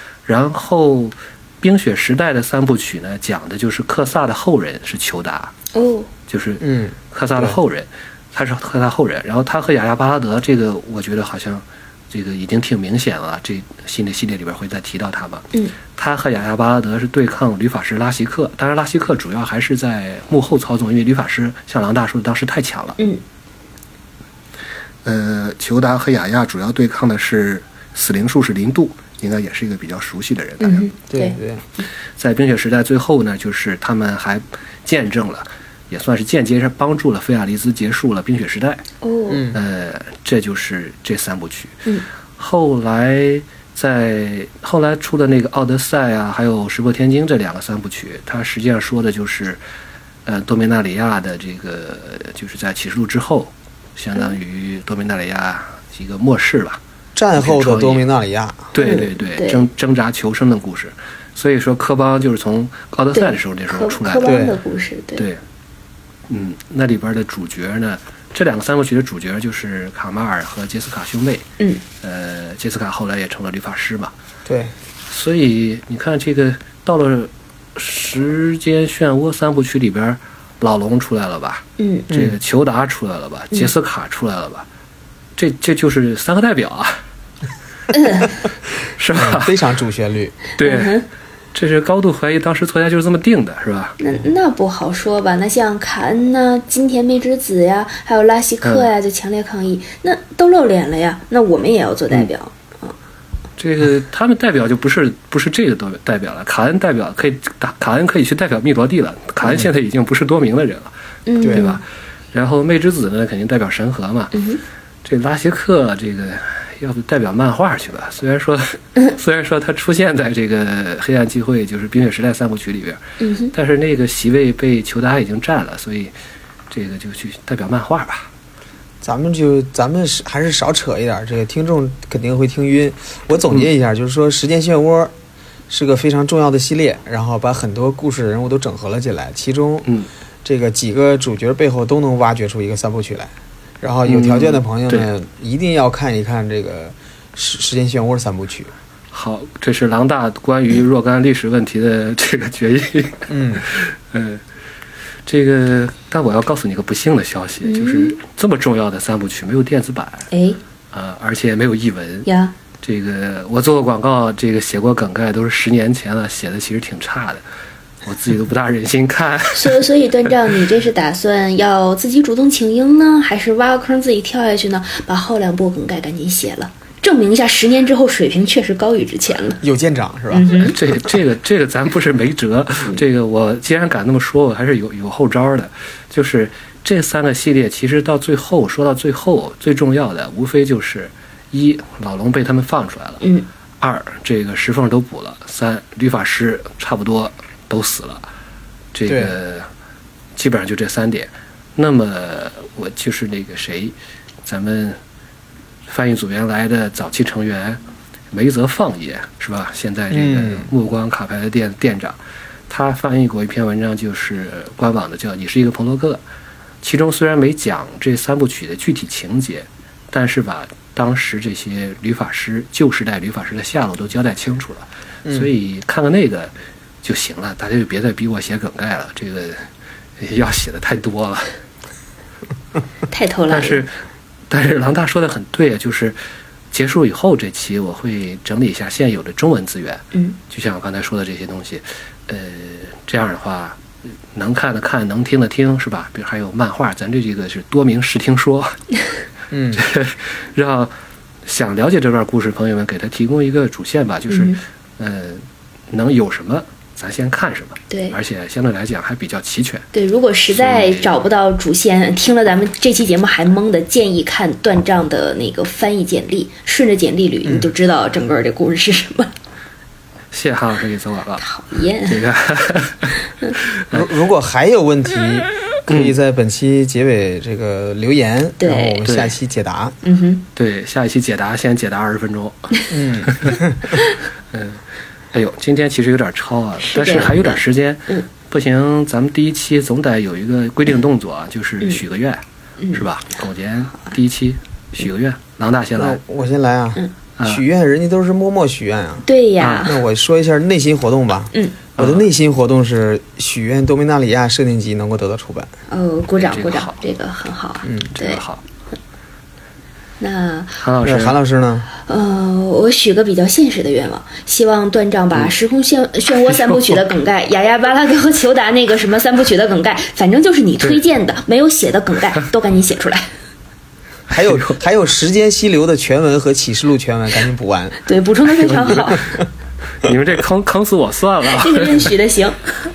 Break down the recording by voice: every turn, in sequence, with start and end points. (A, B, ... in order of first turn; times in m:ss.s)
0:00.3-0:05.5 A
0:05.7-0:06.1 B
0:06.3-0:23.0 A
0:06.6-0:07.6 C
0:25.0-0:30.9 A
0:30.6-0:31.9 B
0:31.1-0:31.6 C
0:32.2-0:38.8 A
0:39.0-0:39.5 B
0:39.3-0:39.6 C
0:39.5-0:41.9 A
0:42.4-0:49.6 A
0:50.3-0:56.8 A
0:57.2-0:58.7 C
0:57.4-0:58.0 A
0:58.7-1:04.4 A
0:58.8-0:59.6 B
1:03.1-1:05.3 B
1:04.2-1:04.5 C
1:06.3-1:11.5 A
1:12.0-1:14.1 A
1:14.5-1:14.7 C
1:15.1-1:24.7 A
1:21.8-1:22.1 B
1:22.1-1:22.4 C
1:25.4-1:27.0 A
1:27.9-1:28.3 B
1:29.0-1:29.6 A
1:29.2-1:30.4 C
1:30.6-1:34.0 A
1:30.6-1:31.0 B
1:34.0-1:42.9 B
1:38.6-1:38.9 A
1:43.6-1:54.4 A
1:51.3-1:51.8 B
1:51.4-1:51.7 C
1:54.3-1:54.6 B
1:55.0-2:03.0 A
2:03.2-2:03.5 B
2:03.5-2:06.1 A
2:06.7-2:08.3 A
2:09.0-2:15.1 C
2:15.7-2:19.9 C
2:20.4-2:28.7 C
2:24.0-2:25.1 A
2:29.1-2:34.4 A
2:33.3-2:33.7 C
2:35.3-2:40.3 A
2:37.6-2:38.2 B
2:40.3-2:40.6 B
2:40.9-2:42.3 A
2:42.3-2:42.6 B
2:42.8-2:47.4 A
2:48.0-2:49.9 A
2:49.5-2:59.6 B
2:59.6-3:00.9 C
3:00.3-3:00.8 B
3:00.6-3:13.2 A
3:13.2-3:13.5 B
3:13.8-3:18.3 A
3:18.9-3:19.7 A
3:19.1-3:19.4 C
3:20.4-3:25.0 A
3:25.9-3:27.8 A
3:28.3-3:32.2 A
3:30.1-3:30.7 C
3:32.7-3:36.2 A
3:36.8-3:49.7 A
3:45.2-3:45.5 C
3:50.2-3:51.5 A
3:53.1-3:53.8 B
3:53.5-3:53.9 A
3:54.5-3:56.2 A
3:56.7-4:03.8 A
4:04.3-4:08.8 A
4:09.5-4:09.8 C
4:09.7-4:10.9 A
4:11.4-4:19.9 A
4:14.3-4:14.6 B
4:17.9-4:18.2 B
4:19.9-4:29.3 B
4:20.5-4:21.2 A
4:27.4-4:27.7 C
4:30.3-4:31.4 A
4:31.4-4:32.2 B
4:32.0-4:33.2 A
4:33.7-4:34.1 A
4:33.9-4:40.0 C
4:35.9-4:36.1 A
4:38.6-4:39.0 B
4:39.0-4:39.4 A
4:40.0-4:40.4 B
4:40.6-4:43.6 A
4:42.9-4:43.9 C
4:44.5-4:44.8 A
4:45.3-4:56.2 A
4:46.8-4:48.3 B
4:56.0-4:59.3 C
4:57.4-4:57.6 A
4:59.2-5:00.0 B
4:59.6-4:59.9 A
4:59.8-5:05.7 C
5:02.0-5:02.3 A
5:05.9-5:08.4 B
5:06.4-5:07.0 A
5:07.8-5:08.1 C
5:08.2-5:08.6 A
5:10.2-5:10.8 B
5:10.8-5:11.4 A
5:11.0-5:11.9 C
5:12.1-5:23.3 B
5:16.4-5:16.9 A
5:24.3-5:28.0 C
5:24.3-5:24.8 A
5:28.1-5:29.3 B
5:28.6-5:29.2 A
5:30.0-5:32.1 A
5:31.6-5:32.7 B